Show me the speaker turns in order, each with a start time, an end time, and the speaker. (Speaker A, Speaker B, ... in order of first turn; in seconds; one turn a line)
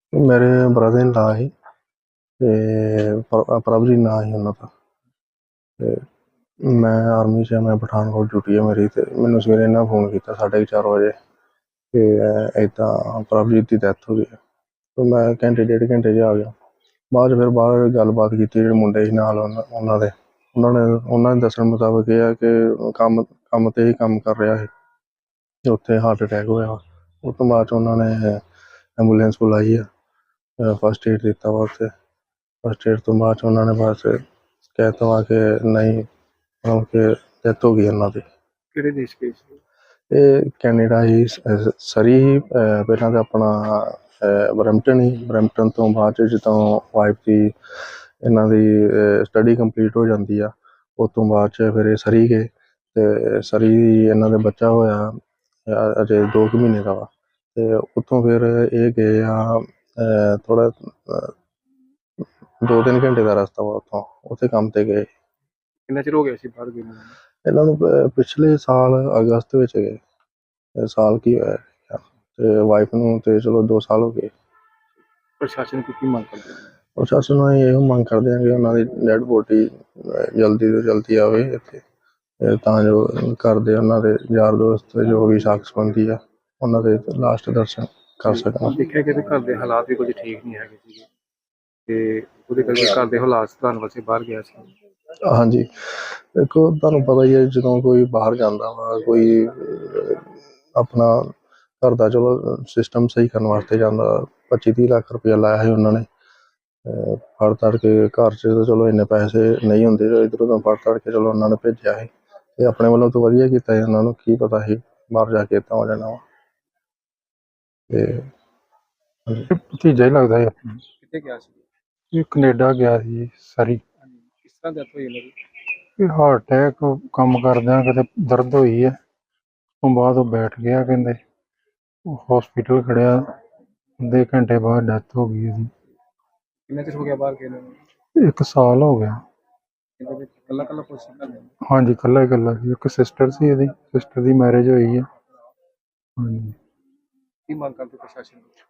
Speaker A: 0.1-1.5
Speaker A: 2.4-4.7
Speaker A: 5.8-6.0
Speaker A: 6.6-11.1
Speaker A: 11.9-14.4
Speaker A: 14.9-16.5
Speaker A: 17.1-24.7
Speaker A: 25.6-28.4
Speaker A: 29.0-29.9
Speaker A: 30.6-31.9
Speaker A: 32.6-34.2
Speaker A: 34.7-36.0
Speaker A: 36.6-38.2
Speaker B: 38.7-39.5
Speaker A: 40.1-47.5
Speaker A: 48.2-61.3
Speaker A: 62.6-65.1
Speaker B: 65.9-67.1
Speaker A: 67.4-70.0
Speaker A: 70.8-74.3
Speaker B: 75.4-76.6
Speaker A: 77.0-81.8
Speaker A: 82.4-88.8
Speaker B: 88.3-91.1
Speaker B: 91.9-94.7
Speaker A: 95.3-106.1
Speaker A: 106.8-116.2
Speaker A: 117.9-118.3
Speaker C: 119.5-120.8
Speaker B: 121.0-121.6
Speaker C: 122.1-123.8
Speaker B: 124.4-125.3
Speaker C: 126.0-129.0
Speaker C: 129.8-131.2
Speaker C: 132.0-133.3
Speaker C: 134.0-135.7
Speaker B: 136.7-137.8
Speaker C: 138.2-139.2
Speaker B: 140.0-141.5
Speaker C: 141.6-145.1
Speaker C: 146.2-146.5
Speaker B: 147.5-148.5